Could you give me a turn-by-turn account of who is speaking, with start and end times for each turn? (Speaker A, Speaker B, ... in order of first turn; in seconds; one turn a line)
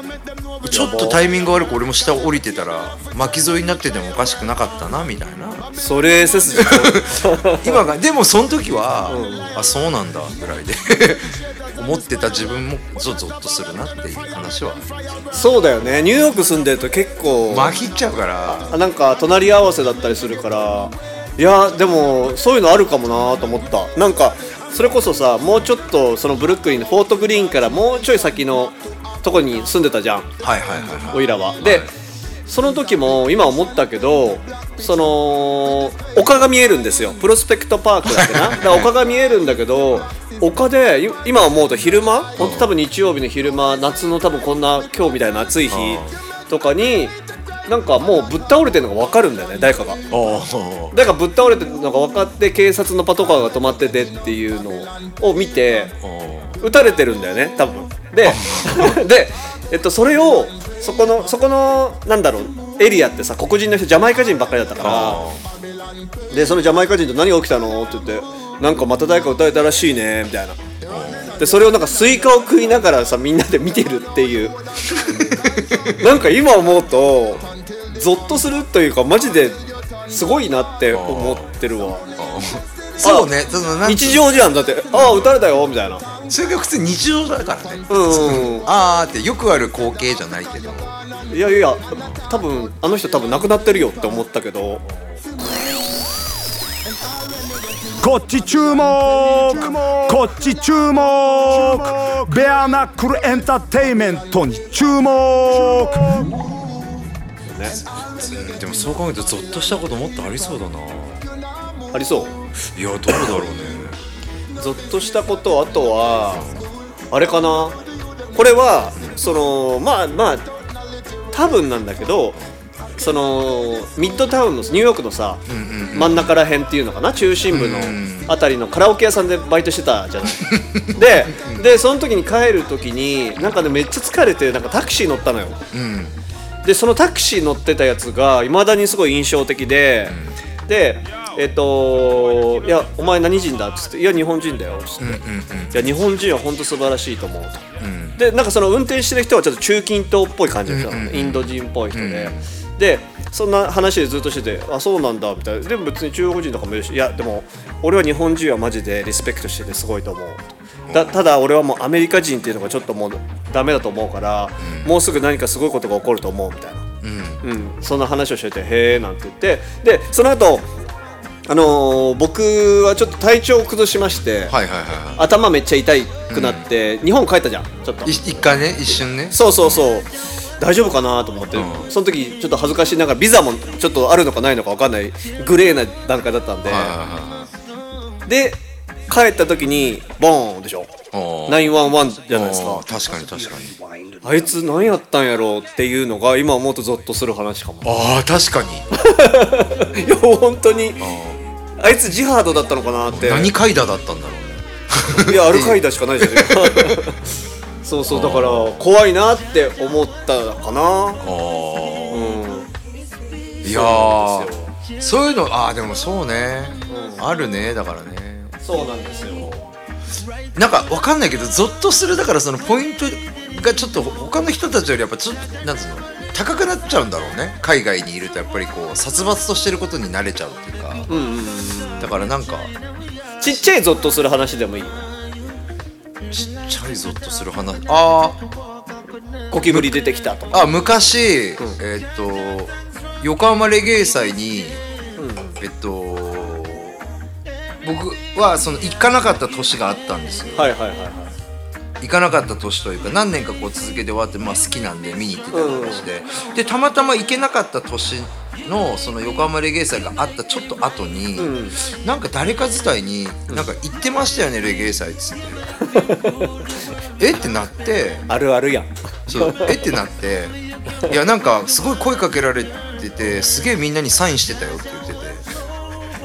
Speaker A: 0.6-5.7
Speaker B: 0.7-1.2
Speaker B: 5.8-7.8
Speaker A: 6.5-15.2
Speaker B: 9.1-9.6
Speaker B: 15.3-17.8
Speaker A: 17.5-18.8
Speaker B: 18.5-30.3
Speaker A: 30.4-31.9
Speaker B: 31.1-31.9
Speaker B: 32.5-50.0
Speaker A: 38.1-38.9
Speaker A: 42.4-42.7
Speaker A: 45.7-46.2
Speaker A: 50.1-51.0
Speaker B: 50.9-56.0
Speaker A: 56.0-56.6
Speaker B: 56.6-65.3
Speaker A: 58.2-59.0
Speaker A: 64.8-65.4
Speaker B: 66.3-70.6
Speaker A: 70.9-71.4
Speaker B: 71.4-74.6
Speaker A: 75.0-76.3
Speaker B: 76.0-82.0
Speaker A: 80.9-81.6
Speaker A: 82.2-85.3
Speaker B: 83.0-83.3
Speaker B: 83.8-86.1
Speaker A: 86.3-91.0
Speaker B: 87.9-88.7
Speaker B: 91.3-94.8
Speaker C: 98.0-106.4
Speaker B: 107.5-107.8
Speaker A: 107.6-111.3
Speaker B: 111.9-112.4
Speaker A: 112.7-114.0
Speaker B: 114.6-116.5
Speaker A: 116.3-116.7
Speaker B: 117.1-117.8
Speaker B: 118.3-120.5
Speaker B: 121.3-122.4
Speaker B: 123.0-135.6
Speaker A: 125.5-126.3
Speaker A: 127.5-128.3
Speaker A: 130.3-131.7
Speaker A: 135.7-136.1
Speaker B: 136.6-147.7
Speaker A: 140.1-140.4
Speaker A: 145.0-145.9
Speaker A: 147.8-148.2
Speaker B: 148.2-166.9
Speaker A: 150.7-152.5
Speaker A: 160.9-161.2
Speaker A: 164.6-165.0
Speaker A: 167.0-167.4
Speaker B: 167.4-170.7
Speaker B: 171.5-174.6
Speaker A: 174.5-175.3
Speaker B: 175.2-178.2
Speaker A: 176.3-176.7
Speaker A: 178.0-179.9
Speaker B: 179.2-187.0
Speaker A: 181.5-181.9
Speaker A: 186.7-187.5
Speaker B: 188.2-190.9
Speaker A: 191.1-193.8
Speaker B: 191.5-192.8
Speaker B: 194.2-197.9
Speaker A: 197.8-199.0
Speaker B: 199.0-201.1
Speaker A: 201.0-201.4
Speaker B: 201.8-203.5
Speaker A: 203.1-207.0
Speaker B: 205.2-211.2
Speaker A: 208.1-208.9
Speaker A: 211.2-212.4
Speaker B: 212.1-212.7
Speaker A: 213.6-218.6
Speaker B: 213.6-214.7
Speaker B: 216.9-217.3
Speaker B: 218.6-219.6
Speaker A: 220.6-231.1
Speaker B: 231.1-232.2
Speaker A: 232.0-232.7
Speaker B: 233.4-235.1
Speaker A: 236.3-238.4
Speaker B: 239.5-240.6
Speaker A: 239.6-240.0
Speaker A: 240.5-244.8
Speaker B: 245.2-245.6
Speaker A: 245.6-247.0
Speaker A: 247.8-250.7
Speaker B: 250.5-251.3
Speaker A: 252.0-265.7
Speaker B: 255.5-256.1
Speaker B: 261.4-261.8
Speaker B: 265.9-266.6
Speaker A: 267.2-268.3
Speaker B: 268.3-269.9
Speaker A: 269.3-275.4